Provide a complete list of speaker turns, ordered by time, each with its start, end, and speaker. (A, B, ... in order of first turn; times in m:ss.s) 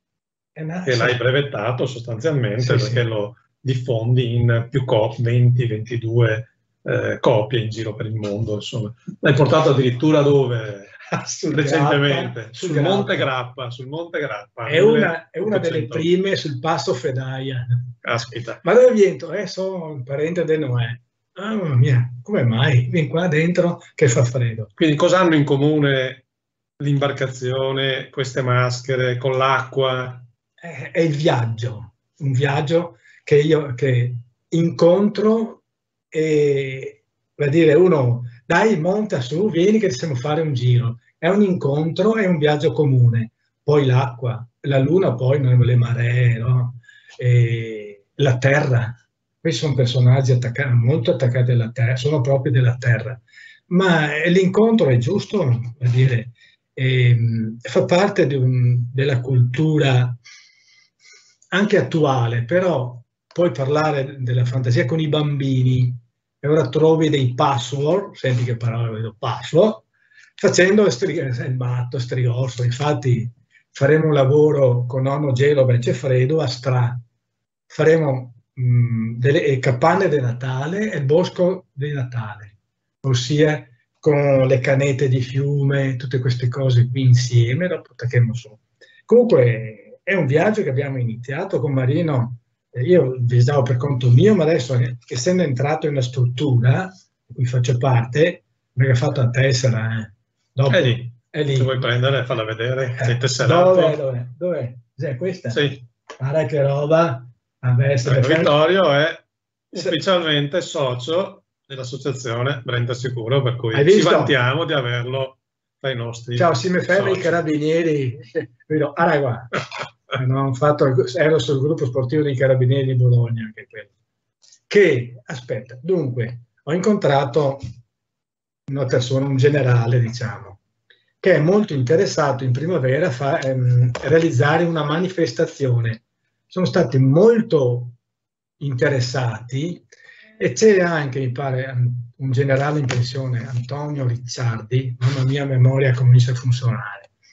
0:00.5-0:01.2 A
0:00.8-0:16.1 B
0:02.6-0:03.0 A
0:11.1-0:13.3 A
0:14.6-0:17.9 A
0:18.0-0:18.6 B
0:18.6-0:24.7 A
0:24.8-0:26.2 B
0:26.8-0:30.3 B
0:30.6-1:00.2 A
1:01.5-1:09.9 A
1:10.4-1:17.0 A
1:17.7-1:41.8 A
1:40.7-1:44.0 B
1:43.0-1:45.6 A
1:45.5-1:45.8 B
1:46.2-1:48.5 A
1:48.0-1:57.4 B
1:53.7-1:54.4 A
1:56.4-1:59.5 A
2:00.1-2:03.9 A
2:04.7-2:07.6 A
2:08.7-2:10.6 A
2:11.2-2:18.0 A
2:18.6-2:19.9 A
2:20.4-2:27.1 A